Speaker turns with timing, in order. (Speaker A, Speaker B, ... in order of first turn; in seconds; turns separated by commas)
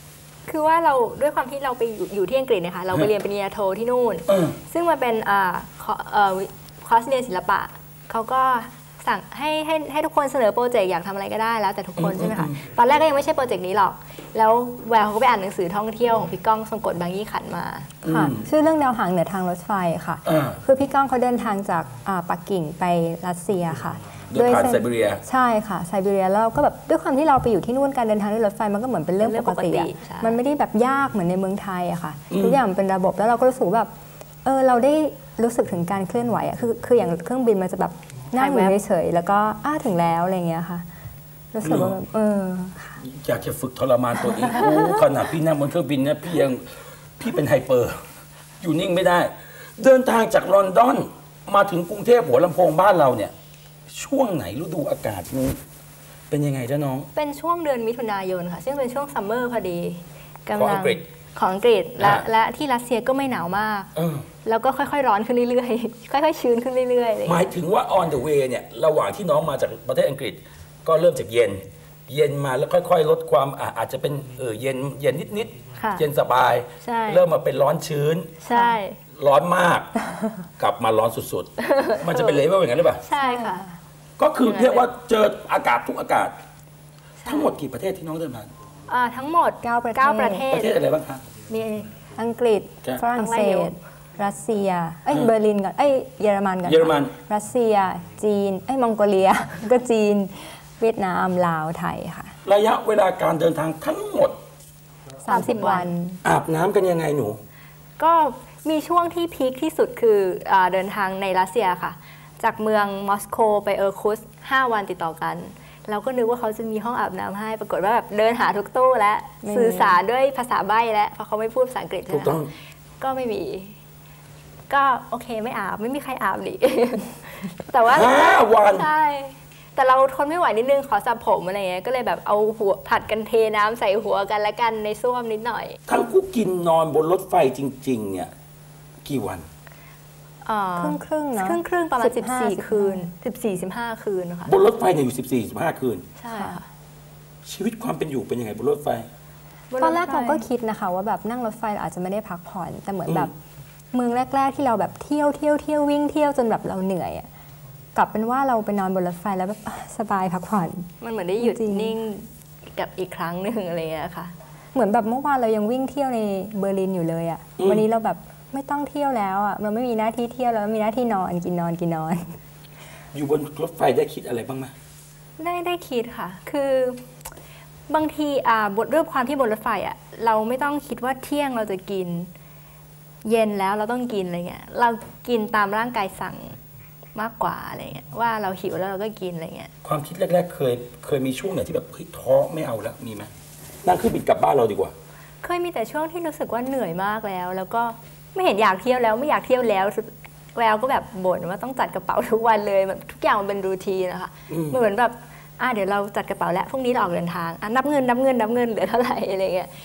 Speaker A: 0.5-17.9, Speaker B: 4.3-4.6, Speaker B: 12.0-12.6, Speaker B: 18.0-18.4, Speaker C: 18.1-33.9, Speaker B: 20.2-20.6, Speaker B: 24.3-25.2, Speaker A: 29.2-30.4, Speaker B: 32.3-32.6, Speaker C: 34.5-40.9, Speaker A: 38.4-38.8, Speaker C: 41.5-43.0, Speaker B: 41.6-42.0, Speaker B: 43.0-46.7, Speaker B: 47.2-48.0, Speaker B: 48.6-53.3, Speaker B: 53.9-55.6, Speaker B: 56.3-57.1, Speaker A: 57.1-63.9, Speaker B: 60.5-61.0, Speaker B: 62.0-62.3, Speaker B: 64.0-64.2, Speaker A: 64.5-67.5, Speaker B: 67.2-78.3, Speaker A: 75.8-76.0, Speaker A: 76.8-77.2, Speaker A: 78.4-79.0, Speaker C: 78.5-78.8, Speaker B: 79.2-79.9, Speaker B: 80.6-83.0, Speaker A: 81.6-82.4, Speaker A: 83.0-83.7, Speaker C: 83.2-83.7, Speaker B: 84.2-86.3, Speaker A: 84.5-84.8, Speaker A: 87.2-87.5, Speaker B: 87.2-88.5, Speaker A: 88.9-90.8, Speaker C: 89.6-90.5, Speaker B: 90.5-91.2, Speaker A: 91.5-92.0, Speaker C: 92.2-102.3, Speaker A: 93.1-93.7, Speaker B: 96.6-97.1, Speaker B: 102.4-104.4, Speaker C: 105.2-106.2, Speaker A: 105.3-105.9, Speaker B: 106.2-107.4, Speaker A: 108.0-122.4, Speaker C: 119.4-120.0, Speaker B: 122.1-122.5, Speaker A: 123.0-123.8, Speaker A: 124.7-135.8, Speaker B: 127.8-128.9, Speaker B: 135.9-138.3, Speaker B: 139.1-139.5, Speaker A: 140.4-144.5, Speaker C: 140.8-143.1, Speaker B: 144.4-146.1, Speaker A: 146.2-146.7, Speaker C: 146.3-146.6, Speaker B: 147.4-149.1, Speaker A: 149.7-150.4, Speaker C: 149.8-153.3, Speaker C: 153.9-157.3, Speaker C: 157.9-162.0, Speaker A: 161.0-164.3, Speaker C: 164.7-172.3, Speaker B: 167.6-167.8, Speaker B: 173.1-174.7, Speaker A: 175.4-177.0, Speaker A: 177.9-182.3, Speaker A: 183.2-186.6, Speaker A: 187.2-189.7, Speaker B: 189.8-193.3, Speaker B: 193.8-194.9, Speaker A: 195.4-209.7, Speaker B: 204.5-204.8